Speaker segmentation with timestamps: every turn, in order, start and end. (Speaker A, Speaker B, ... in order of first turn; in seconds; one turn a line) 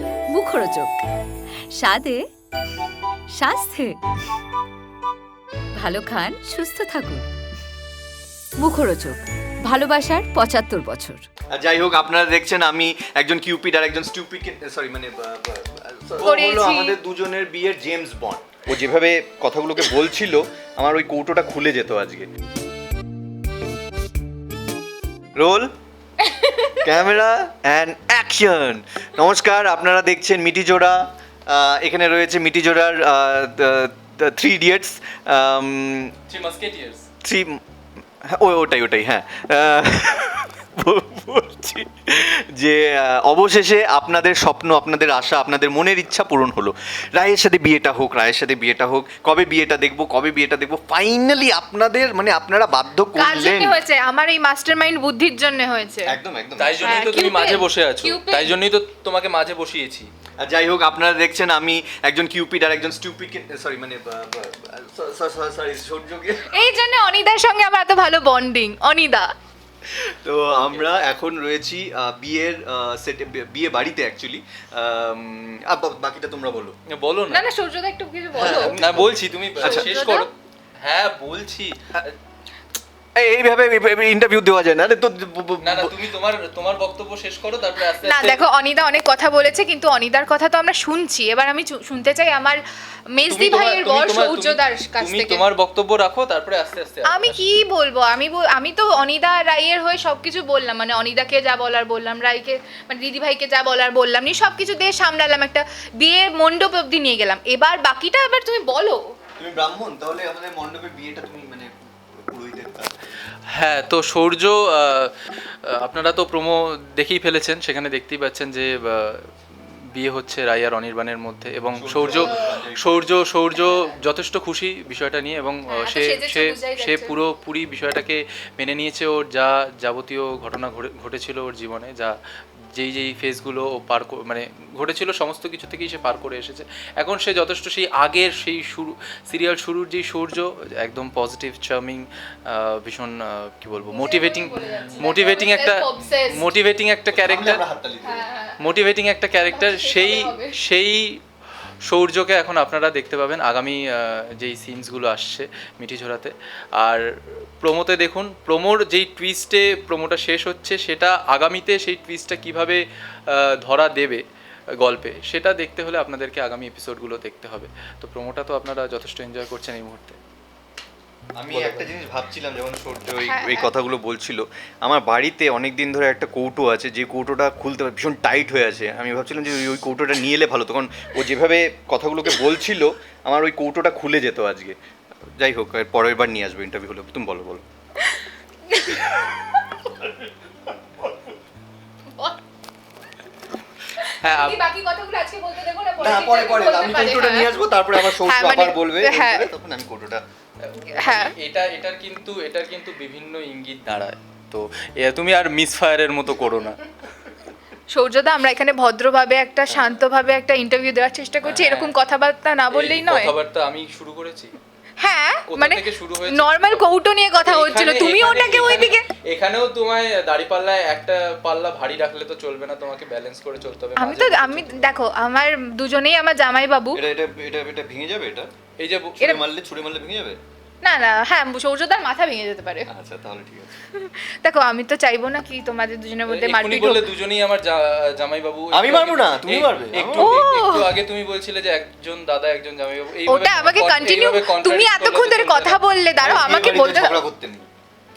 Speaker A: 0.3-1.0
Speaker A: 1.8-2.2
Speaker A: 3.3-4.0
Speaker A: 5.8-7.2
Speaker A: 8.6-11.2
Speaker B: 11.5-22.3
Speaker C: 16.2-17.0
Speaker B: 25.4-25.7
Speaker C: 26.2-26.9
Speaker B: 26.8-36.1
Speaker D: 36.3-37.0
Speaker B: 37.2-37.6
Speaker B: 38.2-53.8
Speaker C: 53.1-56.1
Speaker B: 56.1-57.0
Speaker D: 56.6-60.1
Speaker C: 56.8-58.5
Speaker B: 60.4-66.7
Speaker C: 66.5-69.3
Speaker B: 69.9-76.8
Speaker D: 70.5-70.9
Speaker D: 76.9-77.4
Speaker C: 77.3-78.8
Speaker B: 78.3-79.9
Speaker D: 78.4-80.3
Speaker C: 79.6-80.3
Speaker D: 80.8-82.2
Speaker B: 83.2-85.9
Speaker D: 85.6-88.4
Speaker C: 87.9-92.6
Speaker C: 93.2-95.4
Speaker D: 93.3-97.5
Speaker C: 97.1-109.1
Speaker B: 109.4-113.0
Speaker D: 113.5-115.2
Speaker D: 115.7-132.2
Speaker B: 121.8-123.0
Speaker C: 122.1-122.4
Speaker C: 123.6-123.9
Speaker C: 125.7-127.2
Speaker D: 132.8-147.6
Speaker C: 143.9-146.5
Speaker B: 147.1-148.2
Speaker C: 148.0-148.6
Speaker D: 148.6-151.2
Speaker C: 149.4-150.6
Speaker D: 151.9-164.2
Speaker D: 164.8-170.2
Speaker B: 171.4-184.8
Speaker D: 171.5-171.9
Speaker C: 173.2-173.7
Speaker B: 185.4-187.6
Speaker C: 188.7-189.8
Speaker C: 193.9-199.5
Speaker D: 194.2-194.6
Speaker B: 196.0-200.2
Speaker D: 200.6-206.8
Speaker C: 200.9-201.3
Speaker C: 207.9-213.3
Speaker D: 211.4-211.9
Speaker D: 212.7-214.6
Speaker C: 215.0-219.1
Speaker D: 215.5-225.0
Speaker C: 224.0-227.0
Speaker B: 226.9-228.5
Speaker D: 228.8-229.3
Speaker B: 229.2-230.4
Speaker C: 230.8-232.9
Speaker B: 232.9-233.8
Speaker C: 233.9-237.1
Speaker D: 236.3-245.8
Speaker B: 238.7-240.4
Speaker C: 240.2-240.9
Speaker C: 243.2-247.2
Speaker B: 246.2-247.7